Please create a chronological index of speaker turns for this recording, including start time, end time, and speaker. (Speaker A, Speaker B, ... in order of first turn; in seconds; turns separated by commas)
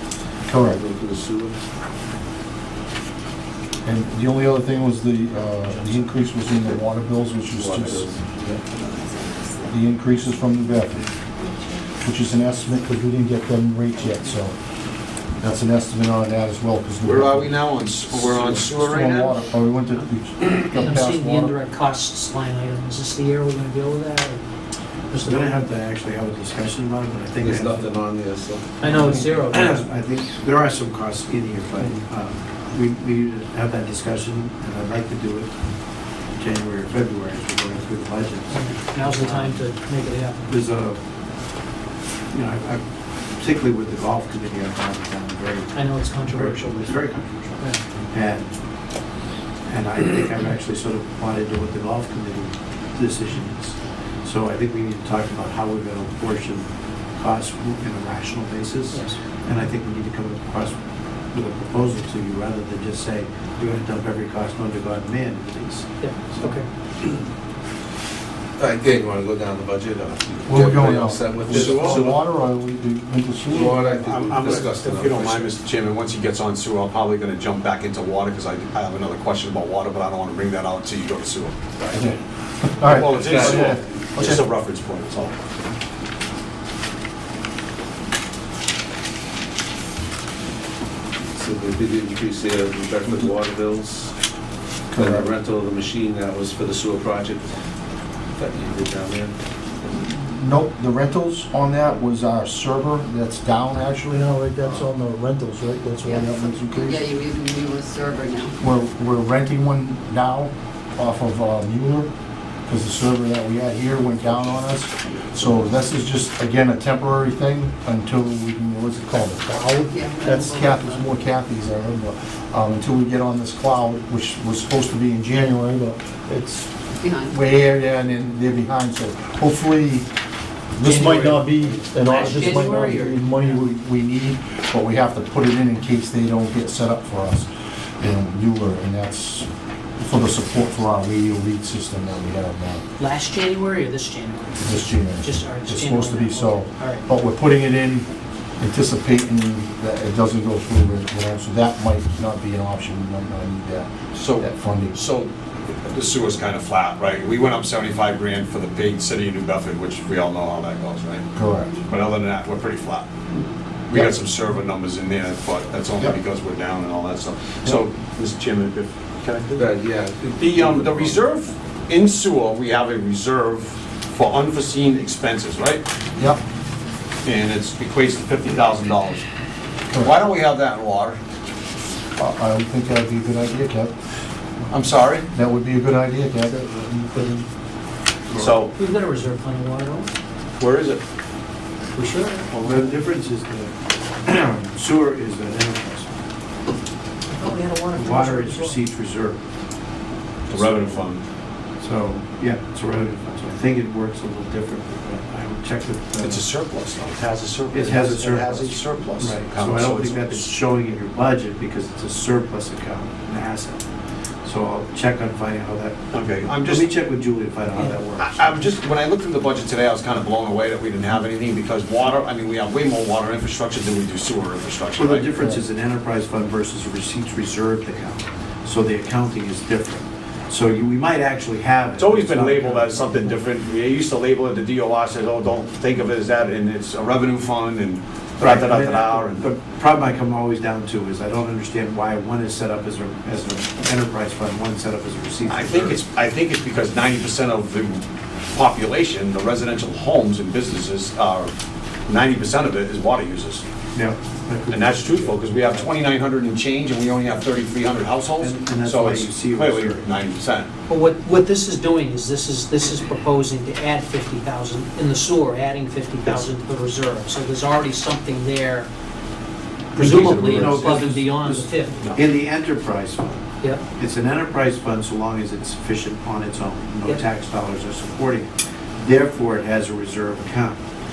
Speaker A: 0.5-0.8, Speaker B: 0.6-1.6, Speaker A: 3.8-8.6, Speaker B: 7.5-8.2, Speaker C: 8.7-9.7, Speaker A: 9.7-11.1, Speaker C: 11.3-11.9, Speaker A: 12.0-14.6, Speaker A: 15.4-17.5, Speaker D: 17.0-19.4, Speaker A: 18.1-21.5, Speaker E: 20.7-24.4, Speaker E: 25.1-25.7, Speaker F: 25.2-28.0, Speaker B: 27.4-29.2, Speaker E: 28.8-29.9, Speaker F: 28.9-35.5, Speaker F: 36.4-39.6, Speaker E: 38.5-40.5, Speaker F: 40.5-41.0, Speaker F: 42.3-48.5, Speaker E: 45.7-47.8, Speaker F: 49.6-66.6, Speaker E: 58.9-59.2, Speaker E: 66.0-66.7, Speaker B: 68.6-72.2, Speaker A: 70.5-74.1, Speaker D: 71.5-72.1, Speaker B: 73.5-75.5, Speaker D: 74.0-82.0, Speaker A: 81.9-84.4, Speaker D: 82.8-85.3, Speaker B: 83.1-83.9, Speaker B: 91.3-94.1, Speaker A: 94.9-95.3, Speaker B: 94.9-97.6, Speaker B: 98.3-99.4, Speaker A: 99.9-107.0, Speaker C: 106.0-108.6, Speaker A: 108.6-112.1, Speaker A: 112.7-130.1, Speaker B: 114.3-114.6, Speaker C: 119.9-121.1, Speaker C: 127.0-127.4, Speaker A: 130.8-139.5, Speaker E: 130.8-133.6, Speaker A: 140.0-142.8, Speaker E: 143.0-147.1, Speaker A: 144.6-148.1, Speaker A: 148.6-154.9, Speaker D: 154.1-161.3, Speaker A: 161.3-161.8, Speaker D: 161.8-163.1, Speaker D: 163.9-169.8, Speaker B: 169.6-171.2, Speaker D: 170.4-175.9, Speaker D: 177.2-179.2, Speaker D: 180.0-181.2, Speaker A: 182.2-183.9, Speaker D: 184.7-185.3, Speaker A: 185.3-186.6, Speaker E: 186.4-187.5, Speaker F: 188.3-188.6, Speaker D: 188.4-188.7, Speaker E: 188.7-190.1, Speaker D: 190.6-191.0, Speaker E: 191.9-193.1, Speaker F: 192.5-193.7, Speaker F: 194.2-196.1, Speaker E: 197.3-198.8, Speaker F: 197.9-199.4, Speaker F: 200.5-201.1, Speaker D: 200.5-201.2, Speaker F: 201.8-206.4, Speaker D: 206.2-210.6, Speaker F: 207.7-213.8, Speaker F: 214.4-218.7, Speaker D: 216.1-216.9, Speaker D: 218.2-225.3, Speaker F: 225.0-233.4, Speaker D: 232.0-239.4, Speaker F: 238.4-246.0, Speaker D: 245.5-251.5, Speaker D: 252.1-253.6, Speaker F: 253.9-255.9, Speaker D: 254.7-260.7, Speaker F: 258.4-260.1, Speaker E: 260.9-268.9, Speaker E: 269.9-272.0, Speaker F: 269.9-273.4, Speaker D: 270.0-270.9, Speaker D: 272.0-272.3, Speaker F: 273.9-280.8